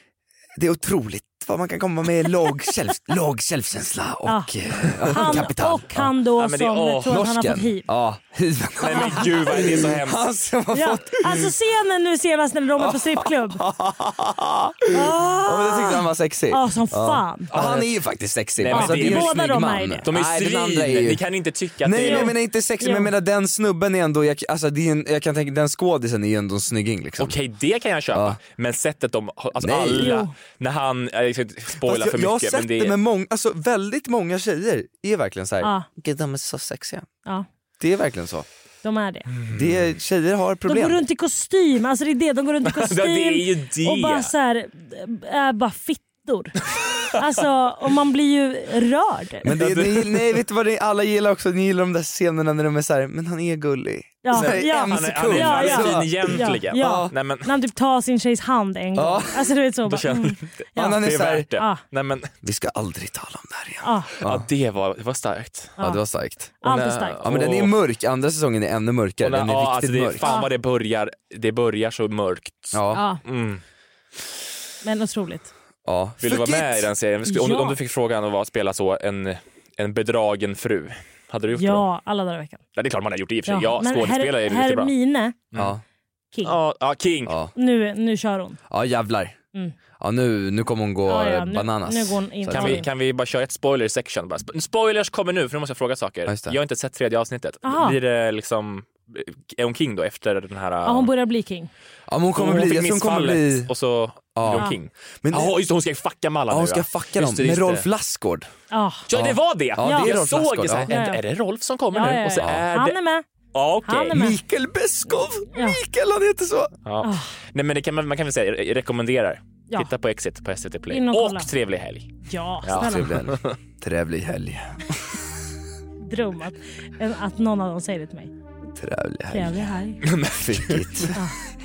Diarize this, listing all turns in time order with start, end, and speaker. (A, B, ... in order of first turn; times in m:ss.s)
0:00.6-0:06.1 A
0:04.3-0:07.9 B
0:06.4-0:07.2 C
0:07.1-0:11.5 A
0:08.8-0:10.3 C
0:10.7-0:13.6 B
0:12.8-0:21.2 A
0:14.9-0:17.5 B
0:17.5-0:17.9 C
0:18.6-0:19.4 C
0:18.7-0:20.1 B
0:20.0-0:22.4 C
0:21.8-0:27.4 A
0:22.0-0:23.1 B
0:27.2-0:33.0 C
0:28.1-0:28.4 A
0:29.6-0:30.1 A
0:30.0-0:30.3 B
0:31.8-0:37.0 A
0:35.6-0:35.9 B
0:37.8-0:38.5 A
0:38.8-0:39.3 B
0:39.4-0:39.8 C
0:39.5-0:41.0 A
0:40.7-0:46.6 B
0:42.6-0:44.3 C
0:47.1-0:49.5 B
0:49.4-0:57.1 A
0:49.5-0:50.1 C
0:54.2-1:01.0 B
0:54.3-0:57.5 C
0:59.0-0:59.5 A
0:59.9-1:02.3 C
1:00.8-1:01.5 A
1:01.6-1:01.8 B
1:02.4-1:04.5 A
1:03.8-1:04.1 B
1:04.2-1:05.8 C
1:05.8-1:06.6 A
1:06.6-1:07.2 B
1:06.6-1:07.8 C
1:07.2-1:10.2 A
1:09.2-1:13.6 C
1:10.2-1:10.5 B
1:12.7-1:13.0 A
1:12.9-1:13.2 B
1:14.8-1:15.5 B
1:15.8-1:16.9 A
1:16.2-1:21.8 C
1:17.3-1:17.8 B
1:21.6-1:22.6 B
1:22.8-1:24.9 C
1:23.5-1:25.4 B
1:25.5-1:25.8 A
1:26.4-1:27.4 C
1:27.3-1:27.5 A
1:27.6-1:28.6 B
1:28.7-1:29.4 A
1:30.0-1:32.8 A
1:31.1-1:32.9 B
1:32.5-1:41.1 C
1:36.3-1:36.6 A
1:37.6-1:38.0 B
1:40.8-1:41.7 B
1:42.1-1:43.7 A
1:42.3-1:47.9 C
1:44.4-1:44.7 A
1:45.2-1:45.5 A
1:46.5-1:48.5 A
1:48.7-1:49.0 B
1:49.1-1:53.0 C
1:49.1-1:50.9 A
1:49.8-1:50.1 B
1:50.9-1:51.2 B
1:51.9-1:53.2 B
1:52.3-1:52.6 A
1:53.5-1:54.2 C
1:53.8-1:54.4 B
1:54.1-1:56.7 A
1:55.5-1:55.8 B
1:56.9-2:02.1 C
1:57.0-1:57.3 B
2:00.9-2:01.5 B
2:02.3-2:03.1 B
2:02.6-2:03.6 C
2:02.7-2:05.2 A
2:06.0-2:08.3 B
2:08.7-2:09.6 A
2:09.3-2:10.0 B
2:10.0-2:11.1 C
2:10.3-2:11.2 A